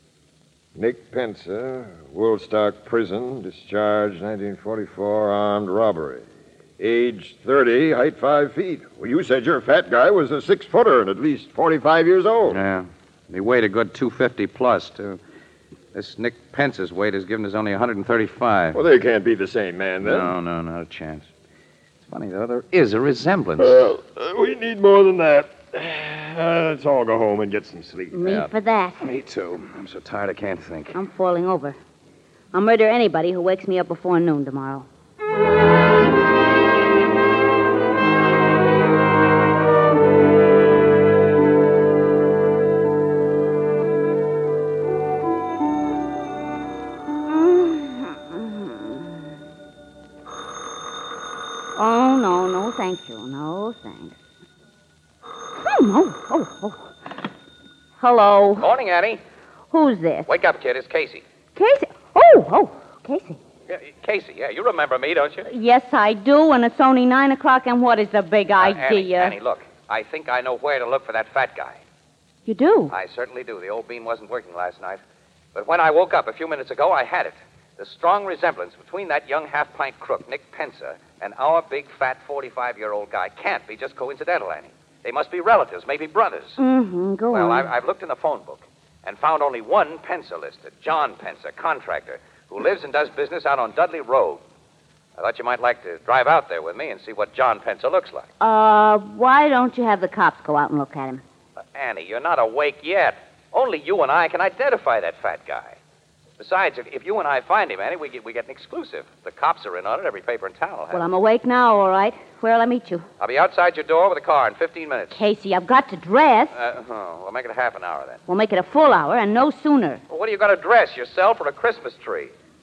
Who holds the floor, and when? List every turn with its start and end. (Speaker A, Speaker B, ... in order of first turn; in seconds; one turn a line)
Speaker A: 0.8-6.2
Speaker A: 6.8-12.6
Speaker B: 12.5-15.2
Speaker B: 15.9-18.8
Speaker A: 18.7-20.3
Speaker B: 20.0-21.3
Speaker B: 22.0-23.8
Speaker A: 23.6-28.1
Speaker C: 28.1-29.0
Speaker B: 28.2-31.0
Speaker C: 30.9-31.8
Speaker C: 32.5-34.9
Speaker C: 47.3-48.9
Speaker C: 51.8-54.2
Speaker C: 55.6-56.9
Speaker C: 58.0-58.7
Speaker B: 58.6-59.2
Speaker C: 59.7-60.3
Speaker B: 60.3-61.2
Speaker C: 61.6-63.4
Speaker B: 63.7-65.5
Speaker C: 65.5-69.3
Speaker B: 68.6-71.8
Speaker C: 72.5-72.9
Speaker B: 72.9-75.0
Speaker B: 75.5-86.6
Speaker C: 86.6-87.7
Speaker B: 87.3-94.4
Speaker B: 95.2-98.3
Speaker C: 98.4-101.2
Speaker B: 101.7-105.8
Speaker B: 106.4-111.0
Speaker C: 110.9-113.0
Speaker B: 113.2-115.2
Speaker C: 115.1-116.5
Speaker B: 116.5-118.2
Speaker C: 118.3-120.0
Speaker B: 120.1-122.3